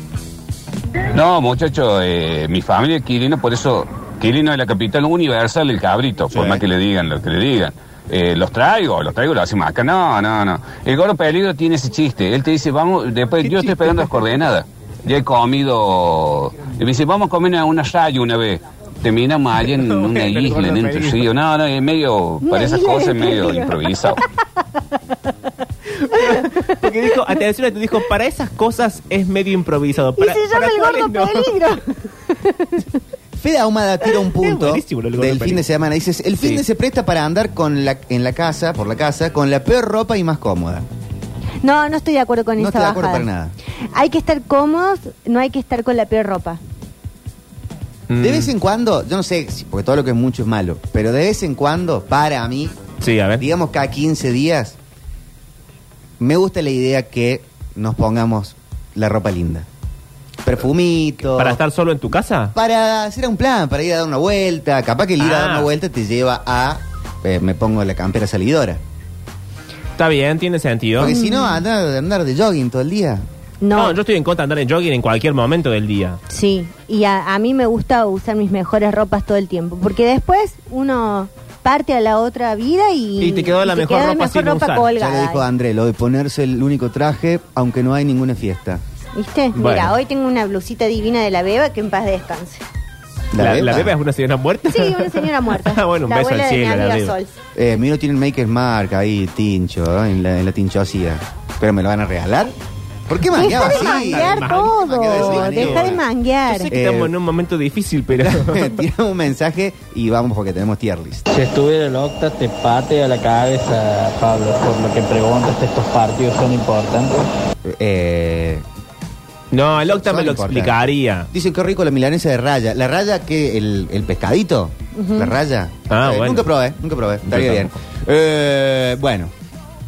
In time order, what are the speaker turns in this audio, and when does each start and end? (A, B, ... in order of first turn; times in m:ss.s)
0:01.1-0:24.2 A
0:06.3-0:06.6 B
0:13.4-0:14.0 C
0:19.6-0:21.2 C
0:22.4-0:24.2 D
0:25.9-0:31.6 C
0:26.1-0:26.8 D
0:30.2-0:32.8 D
0:33.4-0:40.8 B
0:34.4-0:35.6 C
0:41.6-0:43.3 D
0:42.6-0:43.5 B
0:43.9-0:46.6 D
0:48.1-0:48.5 C
0:48.2-0:52.8 B
0:53.0-0:53.4 C
0:53.4-0:54.8 B
0:56.2-0:59.7 B
1:00.4-1:01.6 B
1:01.2-1:02.5 C
1:02.5-1:08.8 B
1:05.2-1:05.7 C
1:10.0-1:11.1 C
1:11.0-1:13.2 B
1:11.0-1:11.6 D
1:13.6-1:14.0 D
1:13.7-1:16.2 C
1:16.3-1:25.4 D
1:23.2-1:24.9 C
1:25.0-1:28.8 B
1:29.1-1:32.6 D
1:29.5-1:29.9 C
1:33.3-1:33.9 B
1:33.3-1:37.2 C
1:34.7-1:37.3 D
1:37.5-1:42.5 B
1:43.1-1:46.0 B
1:43.3-1:46.7 D
1:43.5-1:48.8 C
1:46.7-1:47.1 B
1:48.1-1:51.2 B
1:51.3-1:57.3 E
1:57.6-1:58.6 B
1:59.5-2:01.3 C
1:59.7-2:09.3 B
2:04.9-2:05.3 D
2:05.9-2:06.5 C
2:07.2-2:07.7 C